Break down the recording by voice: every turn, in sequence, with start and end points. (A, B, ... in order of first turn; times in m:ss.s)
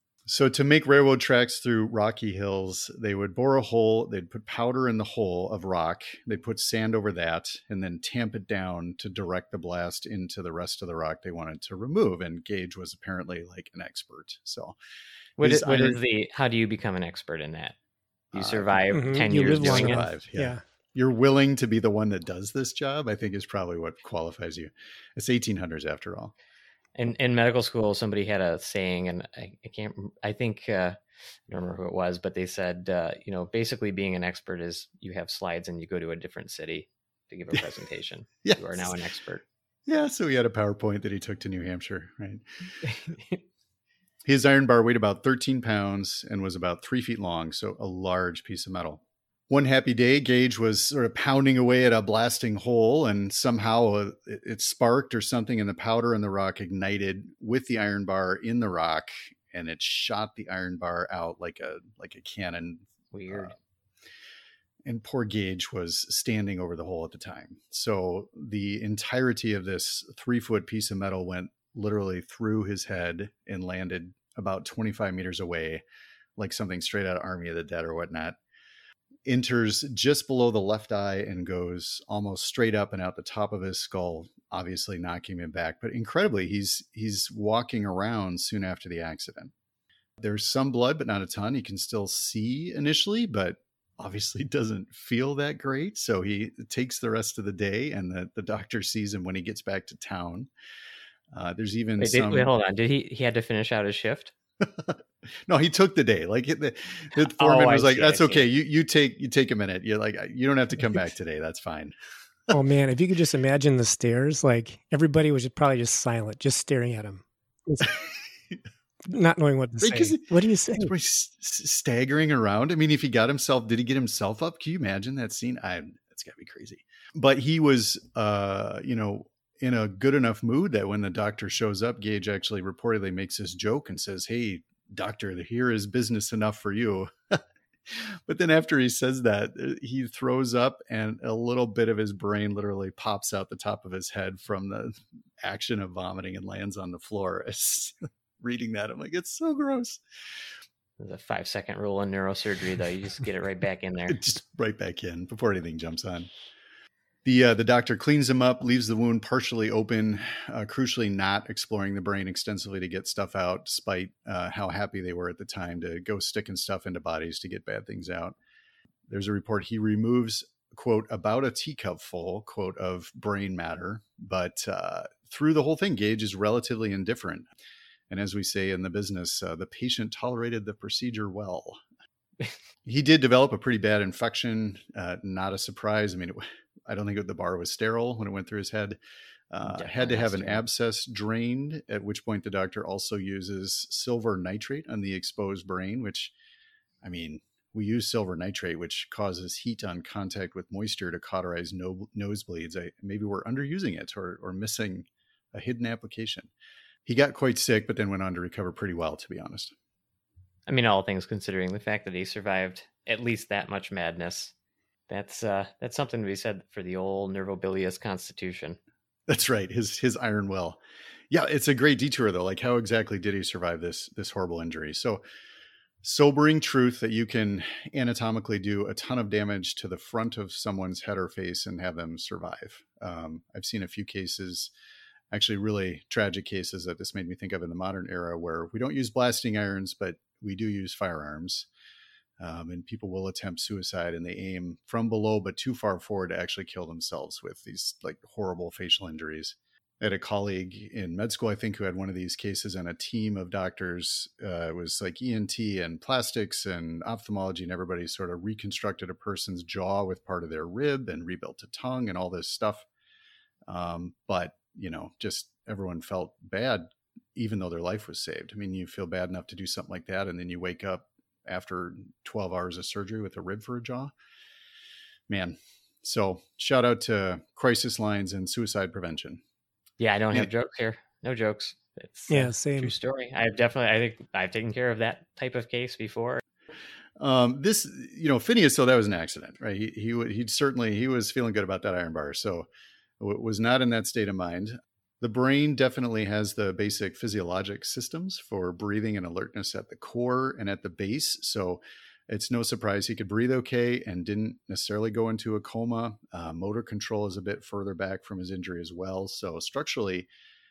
0:00.3-0:14.8 A
0:15.4-0:17.8 B
0:15.4-0:16.0 A
0:18.3-0:20.0 B
0:18.3-0:26.3 A
0:18.9-0:20.6 C
0:27.0-0:31.0 B
0:31.5-0:39.4 B
0:38.4-0:38.9 A
0:39.9-0:42.4 A
0:42.8-0:43.4 B
0:44.2-1:03.5 A
1:03.1-1:03.6 B
1:04.9-1:15.8 A
1:16.4-1:18.4 A
1:19.3-1:29.5 A
1:30.2-1:40.5 A
1:41.3-1:42.5 A
1:42.0-1:44.3 B
1:44.6-1:52.0 A
1:47.2-1:48.4 B
1:52.5-1:57.9 C
1:59.1-2:00.9 C
1:59.8-2:00.3 A
2:00.8-2:30.0 A
2:31.0-2:34.2 B
2:34.1-2:36.3 A
2:37.2-2:48.4 A
2:49.1-2:57.5 A
2:58.1-3:01.8 A
3:02.9-3:09.0 A
3:09.5-3:16.3 A
3:09.7-3:10.6 B
3:17.0-3:26.5 A
3:27.0-3:29.7 A
3:30.7-3:34.5 B
3:35.1-3:38.8 B
3:39.3-3:45.2 A
3:46.0-3:54.7 A
3:55.3-4:01.7 A
4:02.4-4:22.9 A
4:23.7-4:34.1 A
4:35.3-4:39.4 A
4:40.0-4:46.4 B
4:42.3-4:42.9 C
4:47.2-4:52.7 A
4:53.2-5:10.3 A